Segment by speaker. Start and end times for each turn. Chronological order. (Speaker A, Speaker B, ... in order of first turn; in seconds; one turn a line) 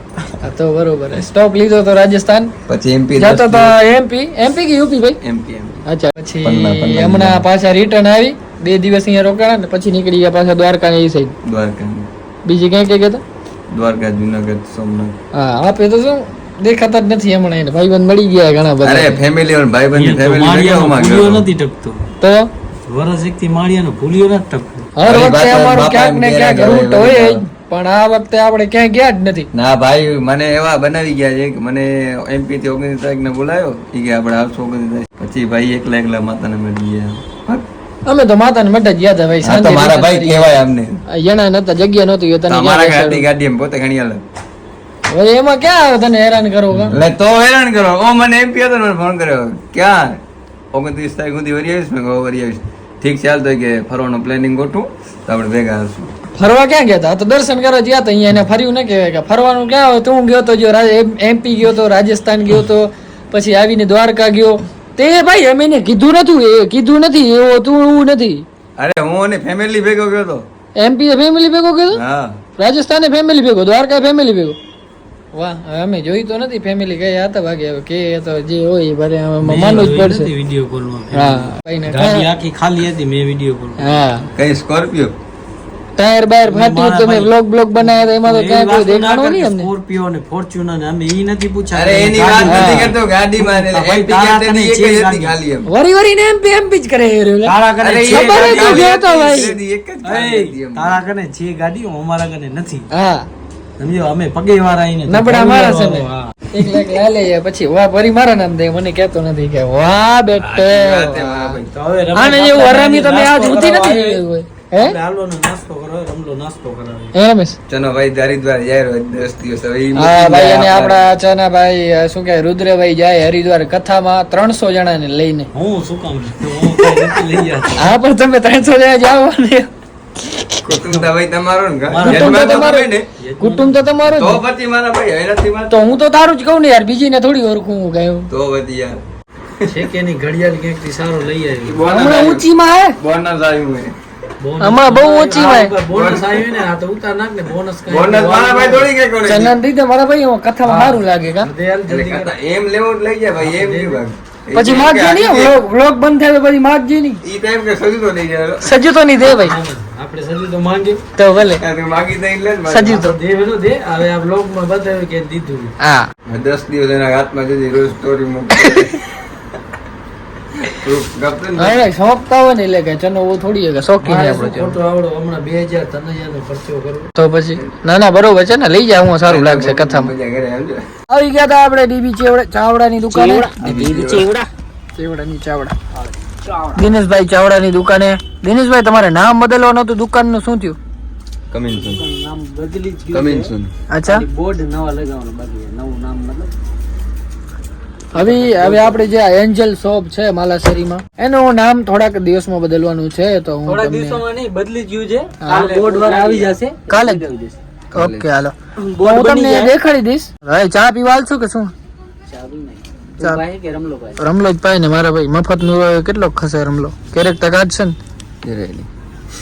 Speaker A: 0.4-2.5
Speaker B: 2.7-3.8
Speaker A: 3.2-5.2
Speaker B: 5.2-5.8
Speaker A: 5.9-11.3
Speaker B: 6.4-7.5
Speaker B: 11.4-12.1
Speaker A: 12.5-13.2
Speaker B: 13.7-15.2
Speaker A: 15.3-19.2
Speaker B: 18.8-21.5
Speaker C: 19.9-22.0
Speaker A: 22.2-22.5
Speaker C: 22.9-24.9
Speaker A: 25.0-29.5
Speaker B: 25.0-27.4
Speaker B: 29.5-37.6
Speaker A: 38.1-40.5
Speaker B: 39.4-41.0
Speaker A: 41.1-43.3
Speaker B: 42.5-44.2
Speaker A: 45.1-47.0
Speaker B: 46.8-50.2
Speaker B: 50.7-56.1
Speaker A: 56.4-68.5
Speaker B: 68.8-70.5
Speaker A: 70.8-72.0
Speaker B: 71.9-72.4
Speaker A: 72.6-74.6
Speaker A: 75.3-80.3
Speaker C: 79.4-84.3
Speaker A: 81.1-82.3
Speaker A: 83.8-84.3
Speaker B: 84.4-85.2
Speaker A: 86.0-89.7
Speaker C: 86.5-95.4
Speaker B: 91.7-95.7
Speaker A: 92.5-92.9
Speaker A: 95.7-97.5
Speaker C: 97.4-99.0
Speaker B: 97.8-101.0
Speaker A: 98.1-99.5
Speaker C: 100.0-102.9
Speaker A: 102.9-103.3
Speaker C: 103.8-106.3
Speaker A: 105.1-111.6
Speaker B: 110.4-111.7
Speaker C: 111.7-114.2
Speaker A: 112.2-115.0
Speaker C: 114.8-117.1
Speaker A: 117.1-117.6
Speaker B: 117.7-121.0
Speaker A: 120.0-125.5
Speaker C: 125.5-127.9
Speaker A: 127.8-129.7
Speaker B: 130.7-133.1
Speaker C: 130.8-131.0
Speaker C: 131.9-133.9
Speaker A: 132.0-134.4
Speaker B: 134.2-135.9
Speaker A: 135.7-138.3
Speaker B: 138.3-139.0
Speaker C: 139.7-141.8
Speaker B: 141.7-143.9
Speaker A: 141.9-143.0
Speaker C: 144.4-148.9
Speaker A: 144.6-145.7
Speaker B: 145.8-146.7
Speaker B: 147.9-149.6
Speaker A: 149.3-151.5
Speaker C: 150.6-152.3
Speaker B: 151.9-155.6
Speaker C: 153.4-154.0
Speaker A: 154.5-157.2
Speaker B: 157.2-158.7
Speaker A: 158.6-159.6
Speaker C: 159.2-161.0
Speaker A: 161.2-161.6
Speaker B: 161.4-163.1
Speaker A: 162.7-163.1
Speaker C: 162.9-165.7
Speaker A: 165.8-166.1
Speaker B: 166.3-168.9
Speaker B: 170.7-171.8
Speaker A: 171.6-174.8
Speaker C: 174.0-177.1
Speaker A: 177.2-180.1
Speaker B: 179.3-180.8
Speaker A: 181.1-183.5
Speaker C: 183.1-184.3
Speaker B: 183.6-184.3
Speaker A: 185.0-185.7
Speaker C: 186.0-186.8
Speaker A: 186.8-190.8
Speaker B: 191.5-192.0
Speaker C: 191.7-193.5
Speaker B: 193.1-193.7
Speaker A: 193.9-194.2
Speaker C: 194.1-196.5
Speaker A: 198.1-204.2
Speaker C: 198.2-199.0
Speaker C: 203.7-207.6
Speaker A: 205.4-205.9
Speaker A: 206.9-207.2
Speaker B: 207.9-208.3
Speaker A: 207.9-211.7
Speaker C: 208.8-209.7
Speaker C: 212.3-214.2
Speaker A: 214.2-218.0
Speaker B: 218.4-218.9